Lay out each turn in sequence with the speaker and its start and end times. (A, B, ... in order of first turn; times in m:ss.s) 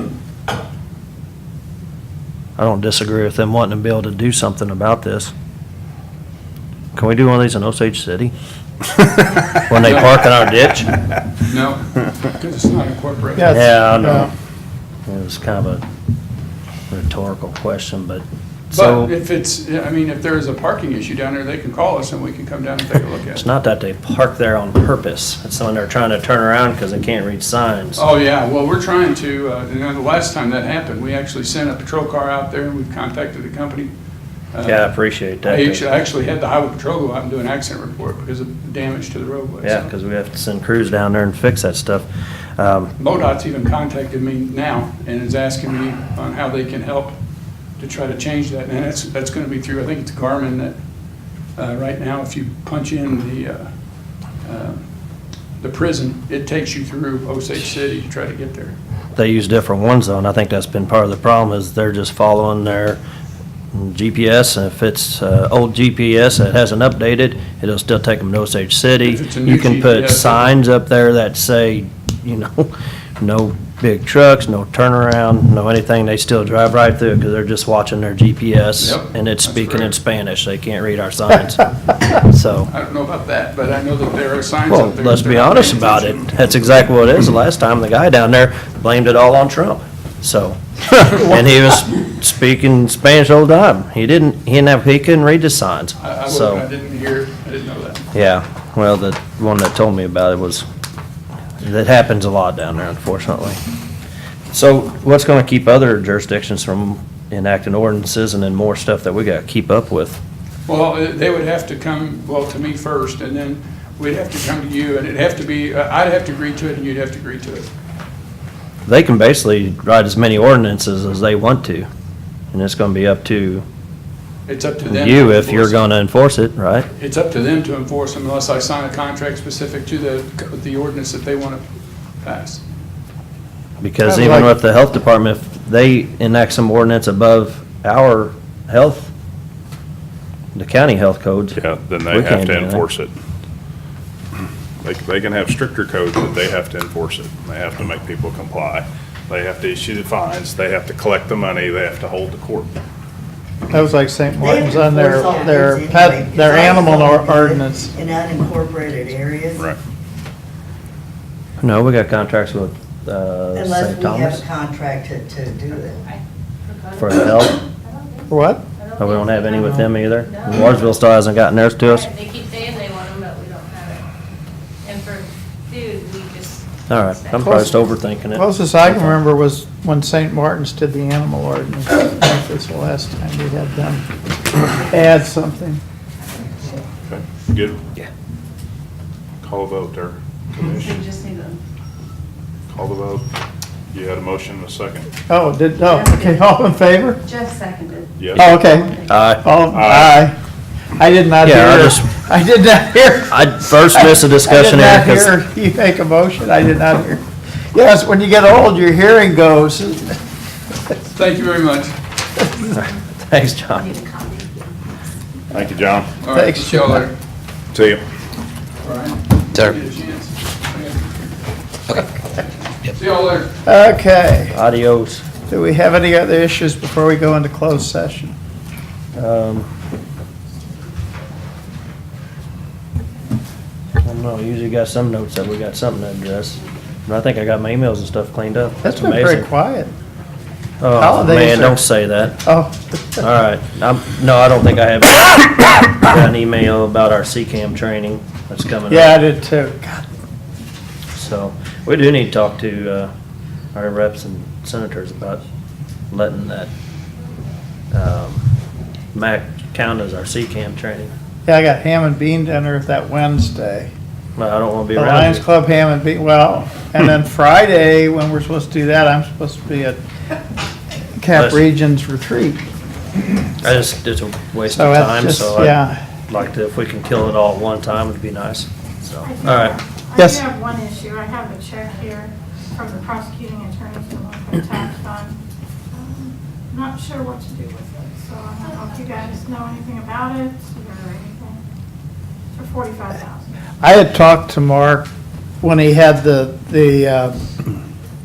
0:02.6-0:05.3 A
0:06.9-0:08.3 A
0:09.6-0:10.9 A
0:09.8-0:10.2 B
0:11.4-0:13.6 B
0:13.4-0:14.3 C
0:13.5-0:14.3 A
0:15.0-0:15.8 A
0:16.9-0:19.1 A
0:18.7-0:23.4 B
0:23.3-0:28.0 A
0:28.0-0:33.9 B
0:34.5-0:34.9 B
0:34.6-0:35.8 A
0:35.4-0:39.9 B
0:39.6-0:42.0 A
0:42.6-0:42.9 A
0:43.0-0:47.2 B
0:47.8-0:50.8 B
0:51.6-0:53.7 B
0:54.4-0:54.8 B
0:55.6-0:58.8 B
0:59.2-1:03.0 A
1:03.7-1:22.7 A
1:09.0-1:10.5 B
1:18.8-1:19.9 B
1:22.7-1:26.2 B
1:24.7-1:36.6 A
1:36.0-1:38.0 B
1:38.1-1:40.6 A
1:41.6-1:43.6 A
1:44.5-1:50.2 A
1:50.7-1:57.7 B
1:58.8-2:01.9 A
2:02.5-2:03.6 A
2:04.5-2:05.8 B
2:04.9-2:06.9 A
2:06.9-2:11.6 B
2:12.2-2:12.6 B
2:13.8-2:19.1 A
2:14.0-2:14.5 C
2:20.5-2:22.8 A
2:21.6-2:23.1 D
2:24.8-2:32.7 D
2:33.7-2:37.9 C
2:34.4-2:39.7 E
2:41.6-2:44.4 A
2:43.5-2:46.0 E
2:46.0-2:49.6 F
2:47.0-2:47.6 A
2:48.3-2:48.6 C
2:49.0-2:52.1 A
2:49.5-2:49.9 C
2:50.2-2:50.8 F
2:51.9-2:54.0 F
2:54.8-2:57.5 F
2:56.9-2:59.2 A
2:57.4-3:04.0 C
3:04.8-3:05.8 C
3:07.1-3:07.8 D
3:09.4-3:11.0 D
3:10.8-3:11.6 F
3:12.7-3:13.2 D
3:13.9-3:15.1 D
3:15.3-3:17.2 C
3:15.9-3:16.3 F
3:17.2-3:19.1 F
3:18.2-3:18.5 D
3:18.3-3:20.4 C
3:19.1-3:19.4 A
3:19.7-3:20.2 D
3:21.0-3:30.2 C
3:21.4-3:22.1 A
3:23.3-3:25.4 A
3:31.1-3:32.0 B
3:32.6-3:34.0 A
3:33.9-3:34.5 F
3:35.5-3:36.1 D
3:36.2-3:37.1 B
3:36.3-3:37.0 C
3:37.7-3:38.0 D
3:38.8-3:43.5 B
3:43.6-3:44.6 C
3:44.5-3:45.2 A
3:45.5-3:48.3 C
3:49.2-3:49.7 A
3:54.0-3:59.5 A
3:58.8-3:59.9 C
4:00.8-4:02.4 A
4:00.9-4:03.2 C
4:03.2-4:09.2 A
4:08.9-4:10.1 C
4:11.1-4:13.1 A
4:13.7-4:15.4 A
4:16.1-4:16.7 A
4:17.9-4:18.4 A
4:19.1-4:21.1 A
4:21.4-4:23.9 C
4:24.4-4:25.4 A
4:24.9-4:30.0 C
4:31.2-4:32.6 C
4:31.3-4:31.6 A
4:33.6-4:39.8 A
4:34.7-4:36.0 C
4:39.2-4:45.4 G
4:40.1-4:40.4 C
4:45.9-4:51.6 G
4:52.5-4:53.5 G
4:53.8-4:55.1 C
4:55.6-4:57.4 C